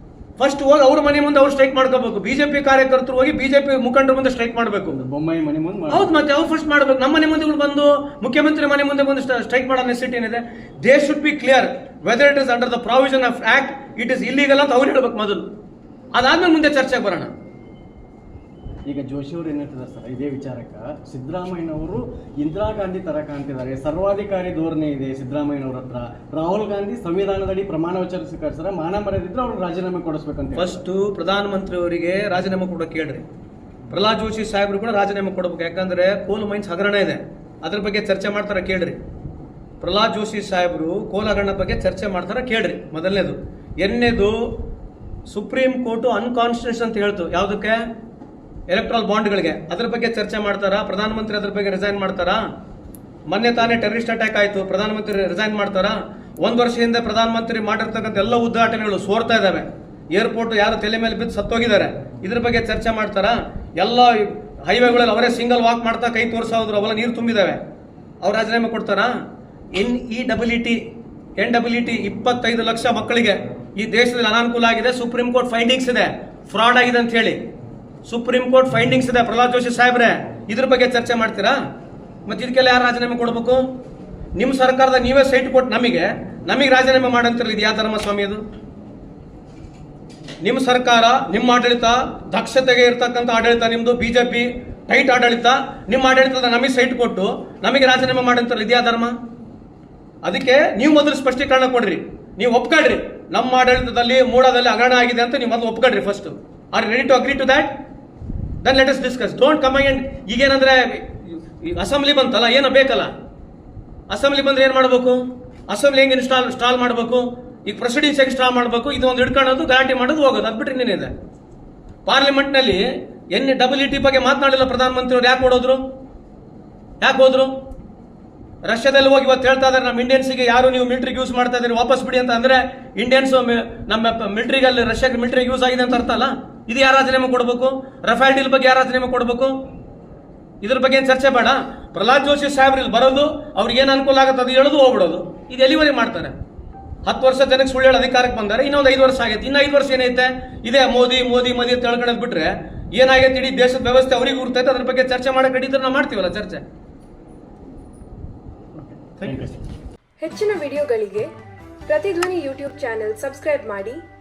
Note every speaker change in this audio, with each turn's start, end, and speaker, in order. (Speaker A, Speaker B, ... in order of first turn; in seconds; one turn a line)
Speaker A: 0.4-5.0
Speaker B: 4.9-6.1
Speaker A: 5.9-15.4
Speaker A: 16.1-17.3
Speaker B: 18.9-30.8
Speaker A: 30.6-33.2
Speaker A: 33.9-39.0
Speaker A: 39.8-44.5
Speaker A: 45.3-47.8
Speaker A: 48.7-52.4
Speaker A: 53.3-67.6
Speaker A: 68.2-69.1
Speaker A: 69.7-70.8
Speaker A: 71.4-77.4
Speaker A: 78.0-81.6
Speaker A: 82.2-83.6
Speaker A: 84.3-88.4
Speaker A: 90.4-99.1
Speaker A: 100.2-107.7
Speaker A: 108.6-113.1
Speaker A: 114.1-121.1
Speaker A: 122.0-125.8
Speaker A: 127.0-127.5
Speaker A: 128.6-139.5
Speaker A: 140.6-146.3
Speaker A: 147.0-156.6
Speaker B: 158.8-159.6
Speaker A: 159.2-159.4
Speaker C: 160.2-161.3
Speaker C: 161.9-164.0